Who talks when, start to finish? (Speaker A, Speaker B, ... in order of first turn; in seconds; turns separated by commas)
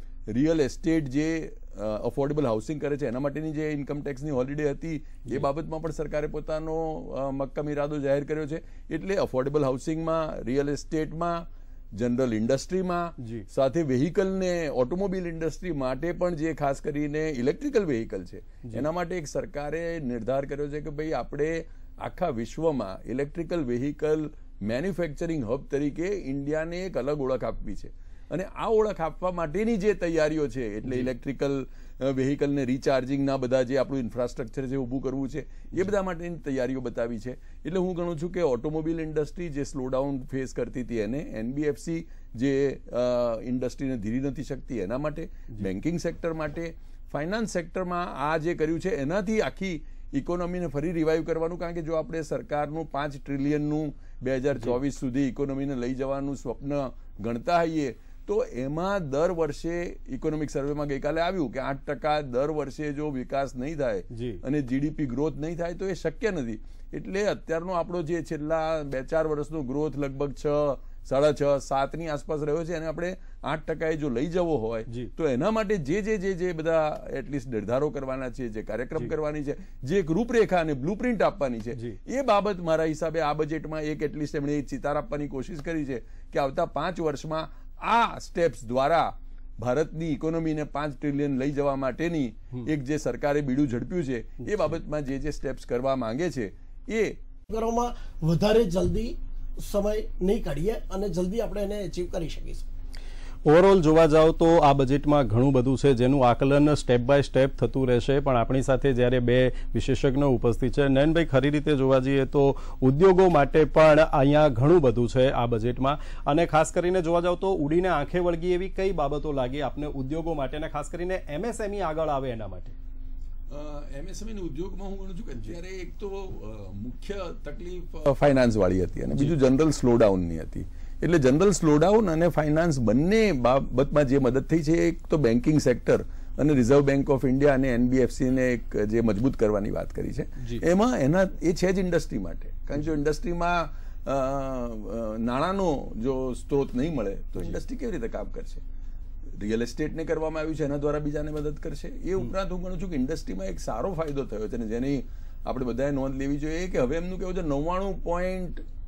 Speaker A: 0.3-97.2, Speaker B: 13.2-13.4, Speaker B: 30.8-31.1, Speaker B: 64.1-64.4, Speaker B: 94.4-94.8, Speaker C: 97.5-102.7, Speaker B: 103.4-122.8, Speaker A: 123.5-148.6, Speaker B: 140.4-140.6, Speaker A: 149.4-158.6